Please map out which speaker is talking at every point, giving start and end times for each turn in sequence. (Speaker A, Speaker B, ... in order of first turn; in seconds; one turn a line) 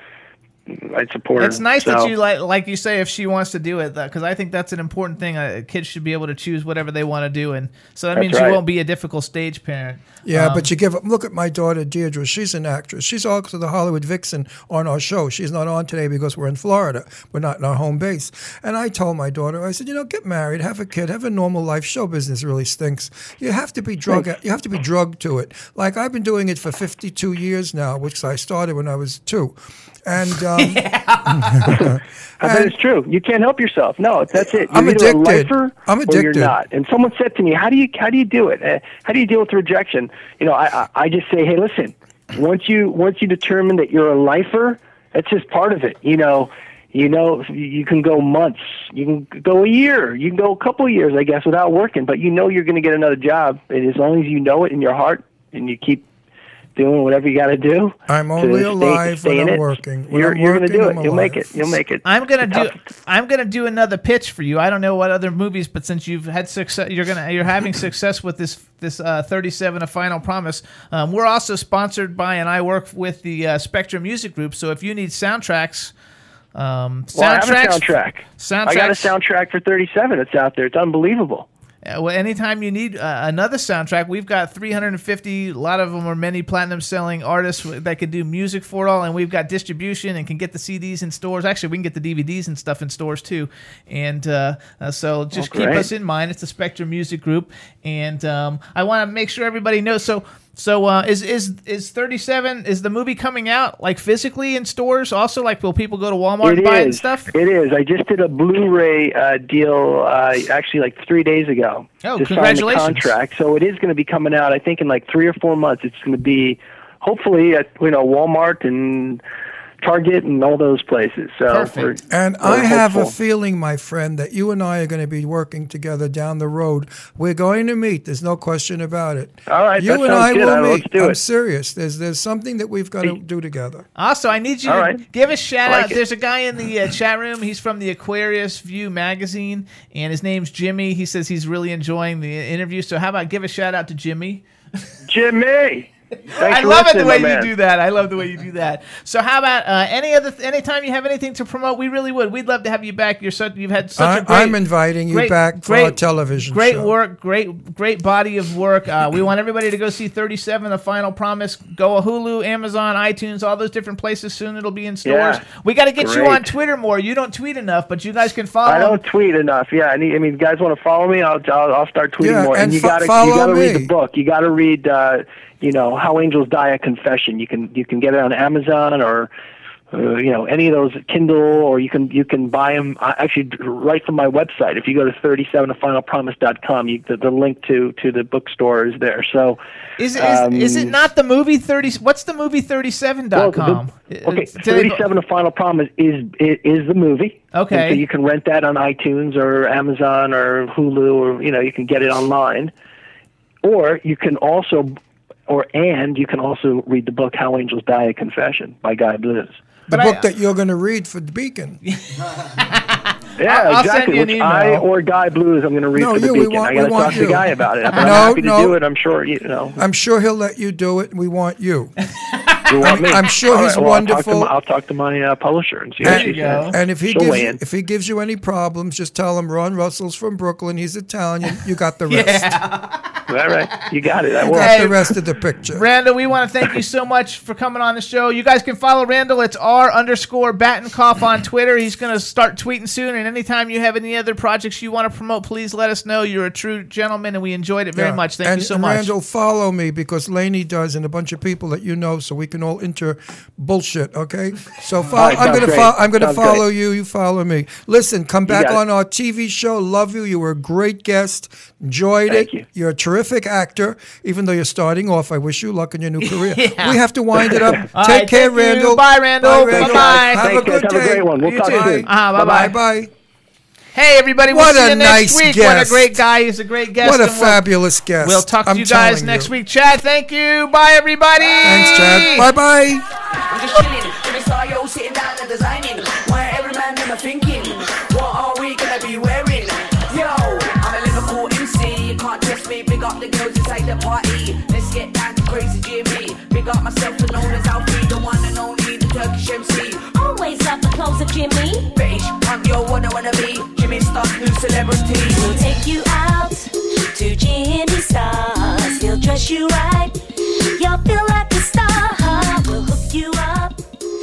Speaker A: 0.7-2.1
Speaker B: 1.4-10.7
Speaker A: 8.2-8.6
Speaker C: 10.2-30.8
Speaker B: 30.5-31.8
Speaker C: 31.6-32.8
Speaker A: 31.7-56.1
Speaker C: 34.3-36.5
Speaker A: 56.8-62.7
Speaker C: 58.1-61.7
Speaker B: 62.0-75.9
Speaker B: 76.5-79.1
Speaker A: 77.1-81.5
Speaker B: 81.8-107.3
Speaker A: 95.3-95.9
Speaker A: 106.4-119.2
Speaker B: 112.0-113.1
Speaker A: 119.8-123.1
Speaker B: 121.5-121.9
Speaker C: 122.1-133.9
Speaker A: 129.5-131.2
Speaker B: 134.0-144.4
Speaker A: 134.7-135.0
Speaker A: 135.7-136.0
Speaker A: 145.1-147.5
Speaker B: 146.4-154.6
Speaker C: 154.0-156.9
Speaker B: 155.1-169.0
Speaker A: 165.1-165.5
Speaker A: 166.0-166.4
Speaker A: 168.7-179.3
Speaker C: 172.2-173.9
Speaker A: 179.9-189.6
Speaker B: 190.0-195.0
Speaker A: 190.1-191.0
Speaker A: 193.3-202.7
Speaker B: 197.5-198.0
Speaker A: 203.6-204.9
Speaker A: 205.5-209.6
Speaker C: 209.9-211.8
Speaker B: 209.9-210.2
Speaker B: 211.8-214.9
Speaker A: 213.4-219.8
Speaker C: 215.9-218.8
Speaker C: 219.8-221.9
Speaker B: 222.2-222.7
Speaker A: 222.7-227.6
Speaker C: 222.8-224.5
Speaker B: 226.0-226.8
Speaker C: 226.0-232.5
Speaker B: 232.1-233.2
Speaker A: 233.3-234.9
Speaker B: 234.4-235.1
Speaker C: 234.5-235.8
Speaker B: 235.8-249.1
Speaker C: 248.0-273.1
Speaker A: 255.1-256.6
Speaker A: 258.5-258.8
Speaker A: 262.3-262.6
Speaker B: 266.2-267.0
Speaker B: 267.9-270.9
Speaker A: 269.7-272.1
Speaker B: 271.4-272.8
Speaker B: 273.9-277.6
Speaker C: 274.5-276.2
Speaker C: 277.0-279.5
Speaker B: 278.2-282.5
Speaker C: 281.6-283.1
Speaker D: 283.5-300.1
Speaker E: 300.1-301.9
Speaker D: 301.9-305.6
Speaker E: 305.3-313.9